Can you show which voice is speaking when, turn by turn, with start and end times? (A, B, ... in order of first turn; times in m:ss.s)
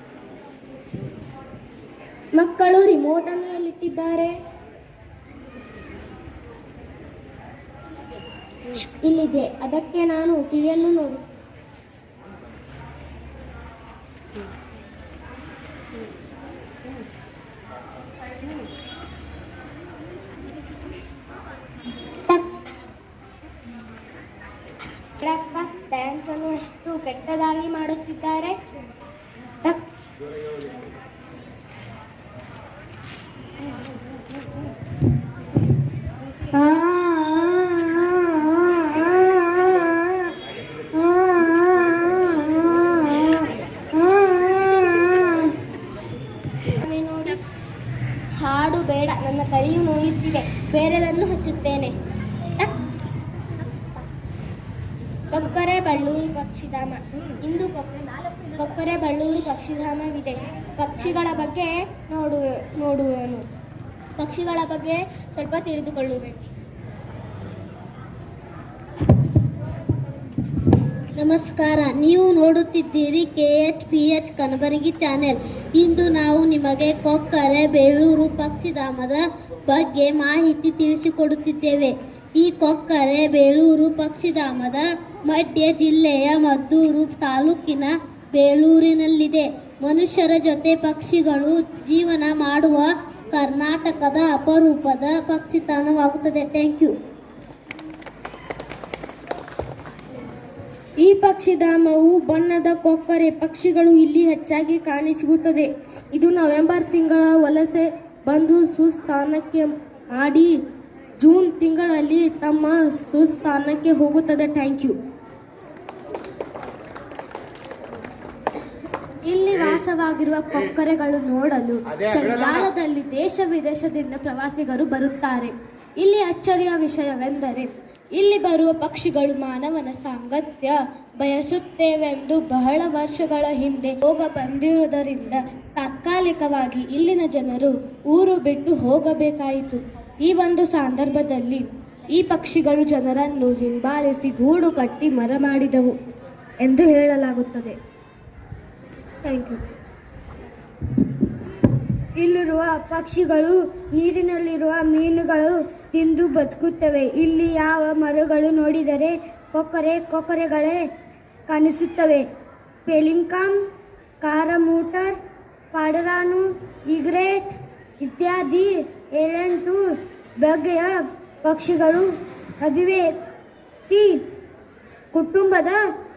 0:02.3-0:04.3 A
0:09.0-0:11.2 A
0:25.2-0:28.5 A
0:36.5-0:40.3 A
0:40.9-0:45.5 A
0:46.8-0:47.4 A
0:48.4-0:51.9 A
0:55.3-1:03.4 A
1:04.2-1:06.4 A
1:11.2-1:36.9 B
1:41.1-1:45.6 C
1:41.3-1:41.8 A
1:43.4-1:45.0 A
1:46.2-1:49.6 C
1:46.3-1:46.7 A
1:50.2-1:50.4 C
1:51.3-1:54.9 C
1:51.6-1:52.2 A
1:53.5-1:54.9 A
1:59.3-2:05.5 A
1:59.5-2:00.8 C
2:01.9-2:03.2 C
2:06.0-2:10.7 A
2:06.1-2:06.7 C
2:10.2-2:10.7 C
2:11.2-2:21.6 A
2:11.2-2:12.5 C
2:15.8-2:16.8 C
2:18.2-2:19.3 C
2:20.3-2:21.6 C
2:22.2-2:25.9 A
2:22.2-2:23.2 C
2:23.8-2:25.0 C
2:26.6-2:27.7 A
2:29.2-2:29.6 A
2:32.2-2:40.8 A
2:41.5-2:42.2 A
2:42.9-2:43.5 A
2:44.2-2:45.2 A
2:45.7-2:49.8 A
2:50.4-2:52.1 A
2:52.6-2:53.1 A
2:53.9-2:54.2 A
2:55.1-2:55.8 A